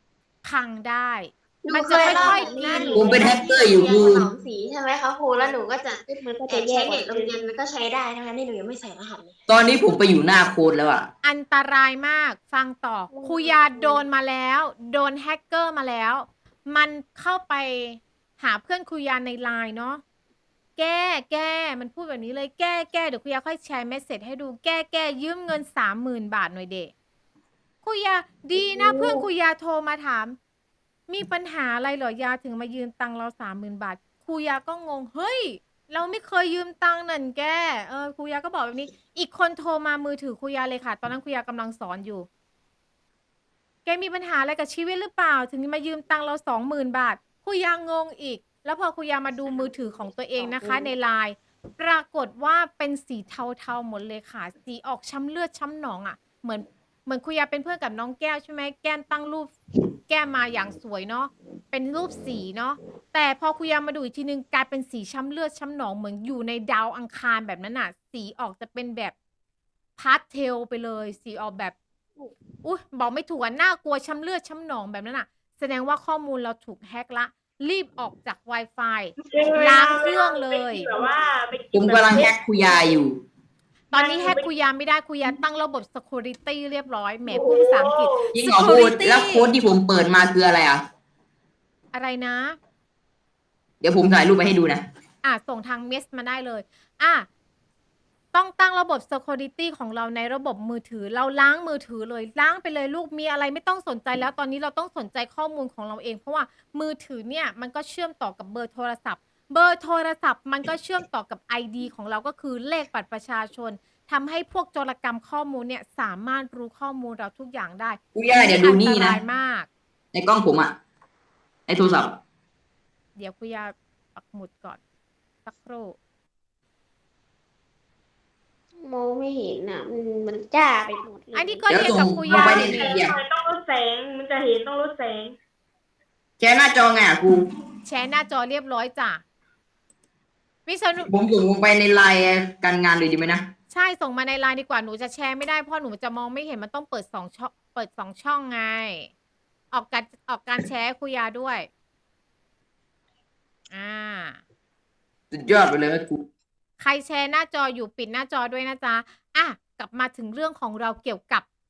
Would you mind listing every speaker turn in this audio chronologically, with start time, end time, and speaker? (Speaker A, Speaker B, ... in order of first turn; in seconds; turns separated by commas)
Speaker A: 0.4-3.1, Speaker B: 1.6-9.3, Speaker C: 1.9-4.3, Speaker D: 2.9-4.3, Speaker C: 6.0-7.1, Speaker D: 9.5-11.1, Speaker A: 11.2-20.0, Speaker C: 13.1-14.0, Speaker A: 20.8-26.9, Speaker A: 27.8-30.4, Speaker E: 28.6-29.2, Speaker A: 31.1-42.3, Speaker A: 43.9-59.5, Speaker C: 50.4-50.9, Speaker A: 60.1-69.1, Speaker A: 70.0-71.8, Speaker A: 72.6-80.9, Speaker E: 79.2-82.9, Speaker D: 81.7-83.2, Speaker A: 83.9-89.5, Speaker E: 83.9-84.5, Speaker E: 87.3-88.3, Speaker D: 88.3-90.8, Speaker A: 91.9-92.6, Speaker D: 93.8-94.8, Speaker A: 95.2-97.3, Speaker A: 98.3-119.7, Speaker D: 118.1-119.2, Speaker D: 120.1-120.8, Speaker D: 121.7-122.2, Speaker A: 123.2-124.8, Speaker A: 125.4-126.0, Speaker C: 128.8-131.7, Speaker A: 131.3-133.0, Speaker D: 131.7-133.2, Speaker E: 132.2-135.3, Speaker D: 136.4-137.5, Speaker A: 137.8-139.2, Speaker A: 140.7-141.1, Speaker D: 141.1-143.5, Speaker A: 143.7-149.1, Speaker A: 149.7-151.7, Speaker A: 153.7-154.4, Speaker D: 155.3-156.3, Speaker A: 156.8-161.4